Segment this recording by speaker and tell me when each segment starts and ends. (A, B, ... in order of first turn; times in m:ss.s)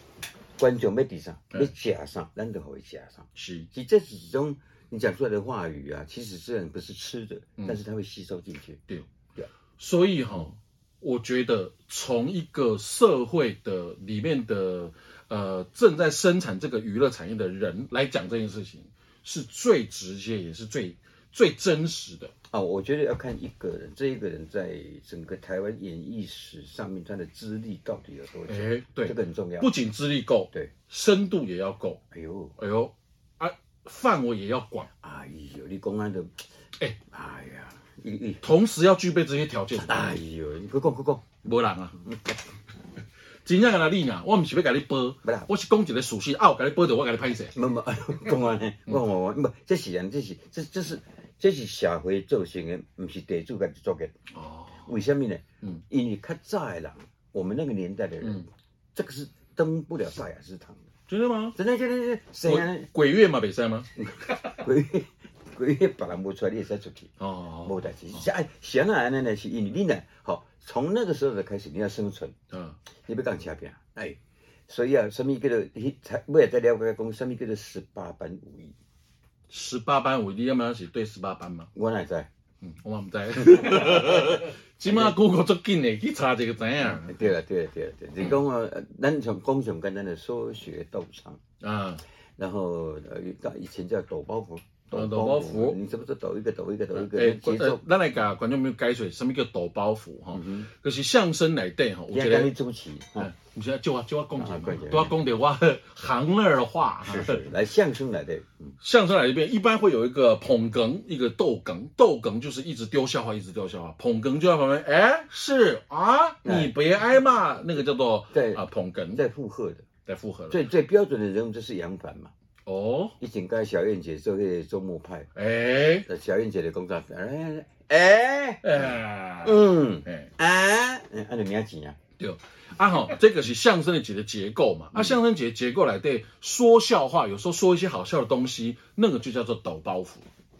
0:00.6-0:08.8 A
0:03.4-0:03.7 B
0:09.8-0:22.3 B
0:22.5-0:29.7 A
0:28.5-0:32.0 B
0:32.1-0:32.6 A
0:32.6-0:34.9 B
0:35.0-0:36.4 A
0:37.1-0:38.4 A
0:38.4-0:40.2 B
0:39.8-0:41.3 A
0:41.4-0:42.2 B
0:43.4-0:47.6 B
0:45.2-0:45.5 A
0:47.5-0:54.1 A
0:54.3-0:54.9 B
0:54.8-1:00.8 A
1:01.1-1:01.6 B
1:01.5-1:02.9 A
1:02.4-1:03.9 B
1:04.0-1:07.1 A
1:07.2-1:08.2 B
1:07.6-1:12.3 A
1:12.5-1:12.8 B
1:13.0-1:18.7 A
1:19.5-1:21.7 B
1:21.7-1:22.3 A
1:22.6-1:27.2 B
1:23.5-1:25.1 A
1:26.9-1:31.4 A
1:31.6-1:32.0 B
1:32.4-1:37.8 A
1:34.9-1:35.8 B
1:36.9-1:42.5 B
1:40.3-1:40.7 A
1:42.1-1:43.3 A
1:43.2-1:47.4 B
1:44.4-1:45.2 A
1:47.0-1:48.7 A
1:48.8-1:59.2 B
1:56.4-1:56.7 A
1:58.3-1:58.6 A
1:59.1-1:59.8 A
2:00.0-2:00.6 B
2:00.5-2:02.3 A
2:02.6-2:03.2 B
2:03.2-2:05.3 A
2:05.3-2:06.0 B
2:06.0-2:12.0 A
2:08.6-2:10.3 B
2:12.2-2:20.2 B